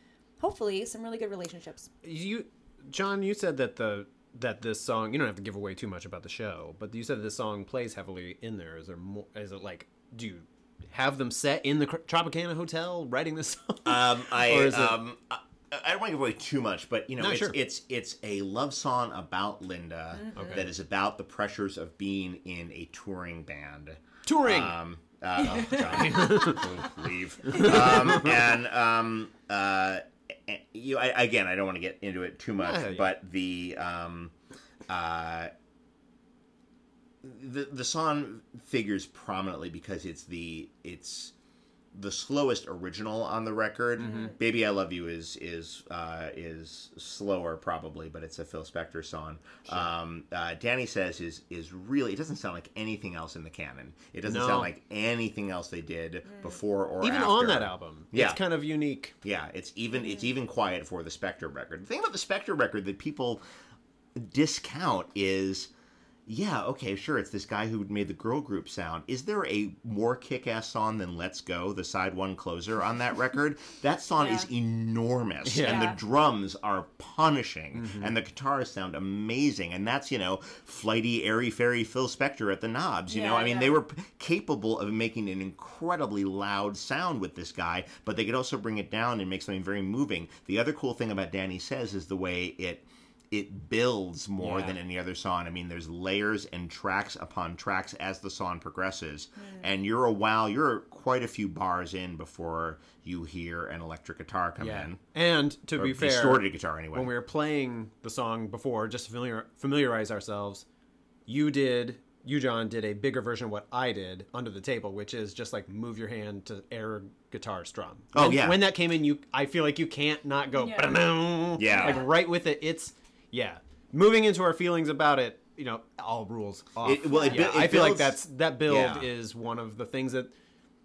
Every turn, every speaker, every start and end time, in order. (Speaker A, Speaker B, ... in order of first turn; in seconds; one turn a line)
Speaker A: 0.4-1.9
Speaker B: 2.0-15.0
Speaker C: 13.8-34.3
Speaker B: 17.2-17.6
Speaker A: 20.1-20.5
Speaker B: 20.4-20.7
Speaker B: 24.2-24.8
Speaker A: 25.4-26.6
Speaker B: 25.8-26.7
Speaker B: 27.5-28.4
Speaker A: 27.5-28.0
Speaker B: 32.6-33.1
Speaker C: 34.9-35.5
Speaker C: 37.2-41.3
Speaker C: 41.9-58.4
Speaker B: 44.0-44.4
Speaker A: 44.0-44.3
Speaker B: 54.2-54.7
Speaker A: 56.3-56.6
Speaker B: 57.0-59.1
Speaker C: 59.2-63.4
Speaker A: 60.0-60.3
Speaker C: 64.2-65.7
Speaker C: 66.3-105.0
Speaker A: 74.2-74.5
Speaker B: 75.4-75.9
Speaker A: 75.6-76.0
Speaker B: 77.7-78.1
Speaker A: 83.1-83.8
Speaker B: 94.4-94.8
Speaker A: 99.4-99.7
Speaker B: 104.6-110.6
Speaker C: 105.8-107.1
Speaker B: 111.3-130.3
Speaker C: 118.1-118.6
Speaker A: 120.5-122.1
Speaker C: 121.6-122.0
Speaker C: 126.8-129.1
Speaker A: 127.0-127.5